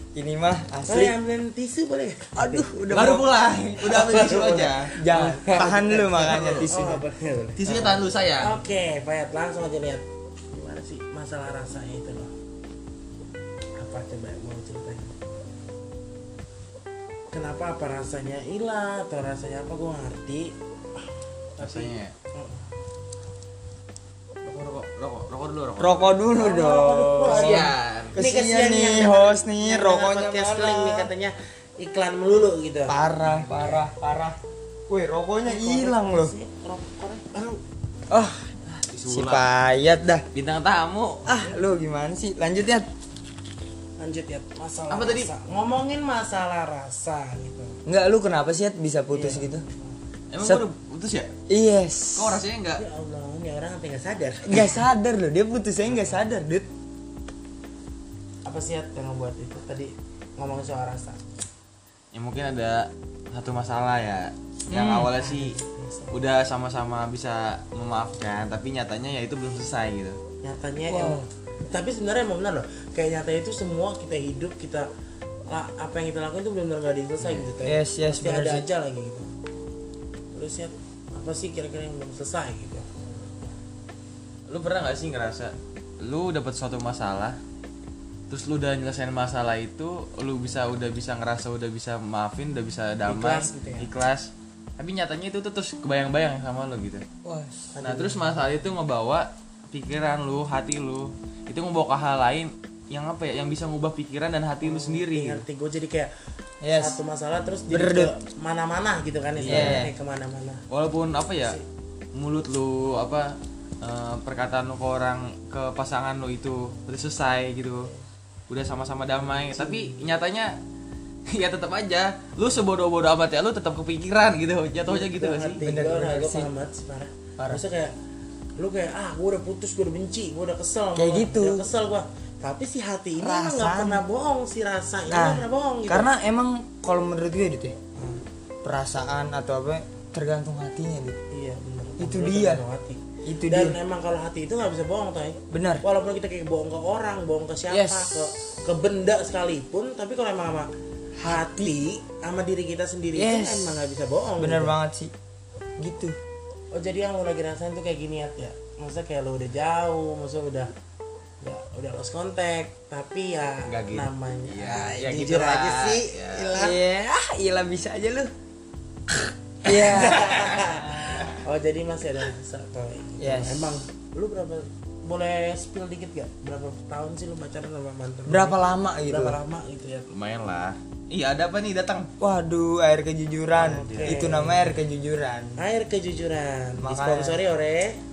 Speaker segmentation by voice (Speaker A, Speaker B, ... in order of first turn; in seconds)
Speaker A: 0.1-1.1, 2.4-3.3, 4.9-7.0, 25.8-31.1, 32.9-34.4, 34.9-36.3, 38.1-40.2, 41.2-42.9, 47.8-49.6, 51.5-52.4, 54.4-56.7, 64.7-65.1, 70.9-71.2, 77.6-78.7, 97.2-97.7, 106.6-107.0, 107.7-108.1, 109.5-109.9, 125.6-126.5, 130.9-131.7, 133.2-134.0, 135.1-137.8, 138.6-141.2, 142.0-142.6, 143.2-143.8, 145.5-145.8, 147.7-148.3, 151.2-151.7, 153.1-153.8, 154.4-155.1, 155.8-156.2, 166.5-168.3, 169.6-171.2, 173.2-173.8, 178.3-179.4, 182.2-185.6, 186.8-187.4
Speaker B: 0.9-2.7, 3.8-12.3, 13.8-15.1, 17.3-20.5, 21.6-22.6, 26.4-33.9, 35.4-37.6, 41.3-41.6, 44.0-47.8, 49.1-49.9, 52.8-54.8, 58.5-61.2, 65.2-66.2, 70.4-74.9, 75.5-79.3, 80.3-83.5, 93.0-93.9, 97.7-98.4, 104.6-106.1, 106.7-110.6, 119.5-120.0, 124.8-127.9, 128.6-136.1, 137.9-138.2, 141.3-150.7, 151.2-154.7, 156.7-160.7, 161.4-166.8, 169.6-178.6, 179.1-180.1, 183.6-184.7, 185.6-188.0
Speaker C: 2.9-4.9, 6.2-6.7, 7.6-8.6, 21.6-22.1, 24.4-26.1, 27.2-28.1, 38.9-39.5, 40.3-41.2, 44.9-45.3, 50.3-51.3, 52.1-52.8, 62.1-65.5, 66.1-70.2, 77.2-77.5, 84.5-87.4, 88.3-97.0, 97.8-105.4, 109.4-109.8, 110.7-111.6, 112.1-117.9, 118.5-120.6, 121.3-125.6, 163.6-166.5, 180.1-182.1, 183.8-184.2